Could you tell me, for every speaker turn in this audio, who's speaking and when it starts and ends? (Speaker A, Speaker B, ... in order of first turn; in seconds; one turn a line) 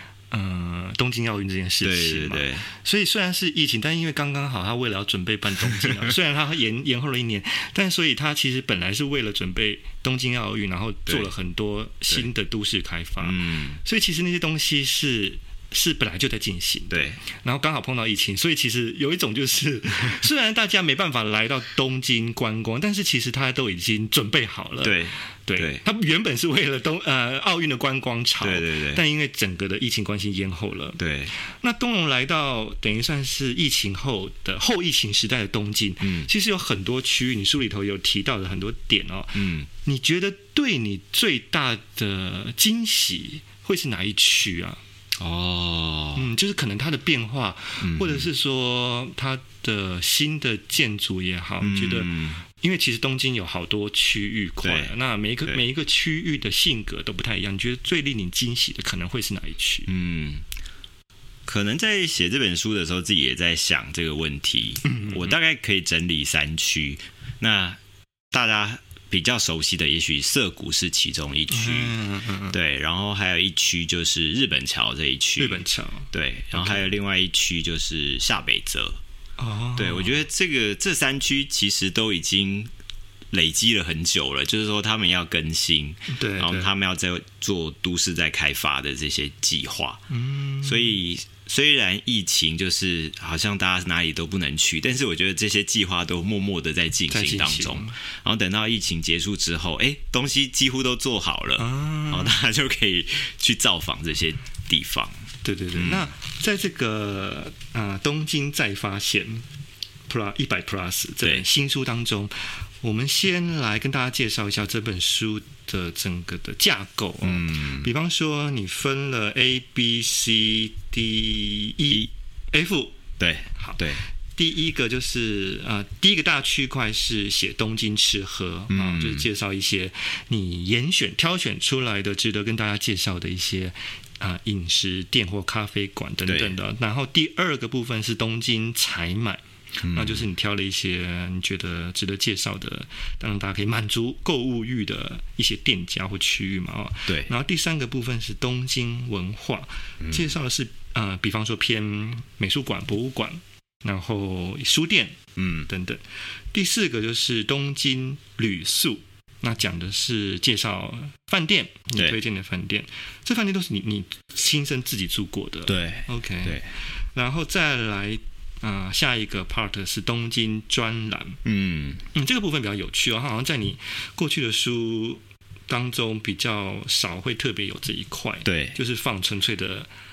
Speaker A: 0.3-44.8
Speaker B: 1.8-2.7
Speaker B: 13.2-13.8
Speaker B: 16.9-17.2
Speaker B: 24.8-25.8
Speaker B: 28.4-29.0
Speaker B: 31.0-31.3
Speaker B: 36.0-36.3
Speaker B: 39.4-39.7
Speaker B: 45.2-46.2
Speaker A: 46.2-59.9
Speaker B: 47.8-48.3
Speaker B: 51.6-52.4
Speaker B: 54.6-54.9
Speaker B: 59.9-60.4
Speaker B: 61.5-67.8
Speaker A: 64.8-65.3
Speaker B: 68.3-72.0
Speaker A: 71.5-72.5
Speaker B: 72.5-75.6
Speaker A: 75.4-76.9
Speaker B: 76.1-79.0
Speaker A: 79.4-80.2
Speaker B: 79.8-82.7
Speaker B: 83.3-90.0
Speaker A: 86.1-86.7
Speaker A: 90.1-91.0
Speaker B: 90.6-105.1
Speaker A: 97.1-98.0
Speaker A: 101.6-102.3
Speaker A: 105.4-109.5
Speaker B: 105.8-106.1
Speaker A: 110.1-123.0
Speaker B: 117.2-117.9
Speaker B: 123.2-124.0
Speaker A: 123.6-156.0
Speaker B: 128.7-129.2
Speaker B: 136.3-136.6
Speaker B: 139.8-140.2
Speaker B: 150.0-150.3
Speaker B: 155.4-155.7
Speaker A: 156.5-171.4
Speaker B: 165.7-166.7
Speaker B: 171.4-172.0
Speaker A: 172.1-179.9
Speaker B: 178.4-178.8